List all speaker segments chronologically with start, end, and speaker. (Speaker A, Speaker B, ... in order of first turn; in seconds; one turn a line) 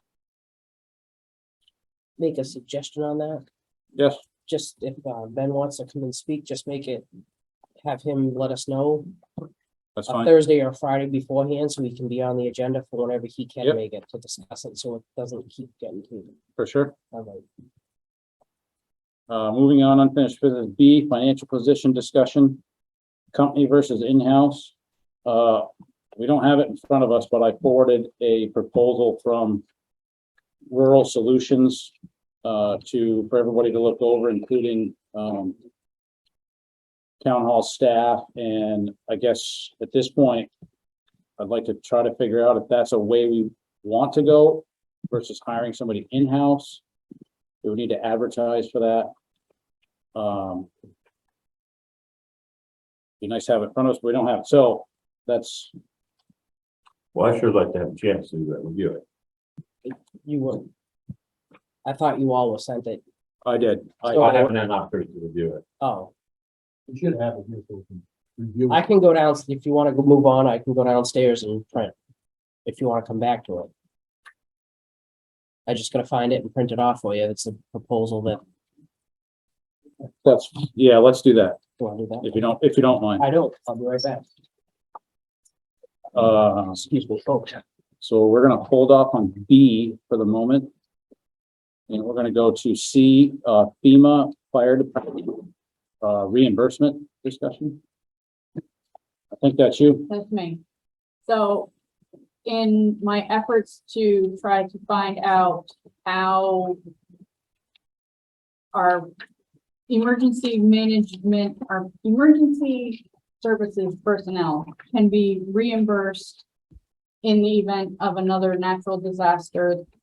Speaker A: 2.2-3.4
Speaker B: 4.0-4.2
Speaker A: 4.5-7.0
Speaker A: 7.8-9.1
Speaker B: 10.0-10.3
Speaker A: 10.1-16.3
Speaker B: 16.6-16.9
Speaker A: 17.1-17.4
Speaker B: 19.3-22.6
Speaker B: 23.3-29.6
Speaker B: 30.7-31.9
Speaker B: 32.4-35.6
Speaker B: 37.2-40.5
Speaker B: 41.4-46.8
Speaker B: 47.6-49.1
Speaker B: 50.1-50.7
Speaker B: 53.2-55.7
Speaker C: 57.1-59.0
Speaker A: 59.9-60.7
Speaker A: 61.9-63.0
Speaker B: 63.5-64.5
Speaker C: 64.2-65.6
Speaker A: 65.8-66.1
Speaker D: 66.9-68.8
Speaker A: 68.7-71.9
Speaker A: 72.7-73.7
Speaker A: 75.7-78.4
Speaker B: 80.2-81.6
Speaker A: 81.8-82.4
Speaker B: 82.2-83.2
Speaker A: 83.2-84.3
Speaker B: 86.1-86.8
Speaker A: 86.7-87.6
Speaker B: 88.0-90.7
Speaker B: 91.9-95.4
Speaker B: 96.0-97.8
Speaker B: 99.4-100.1
Speaker E: 100.1-100.6
Speaker E: 101.2-101.7
Speaker E: 102.5-106.8
Speaker E: 108.7-109.1
Speaker E: 109.9-116.4
Speaker E: 117.2-119.8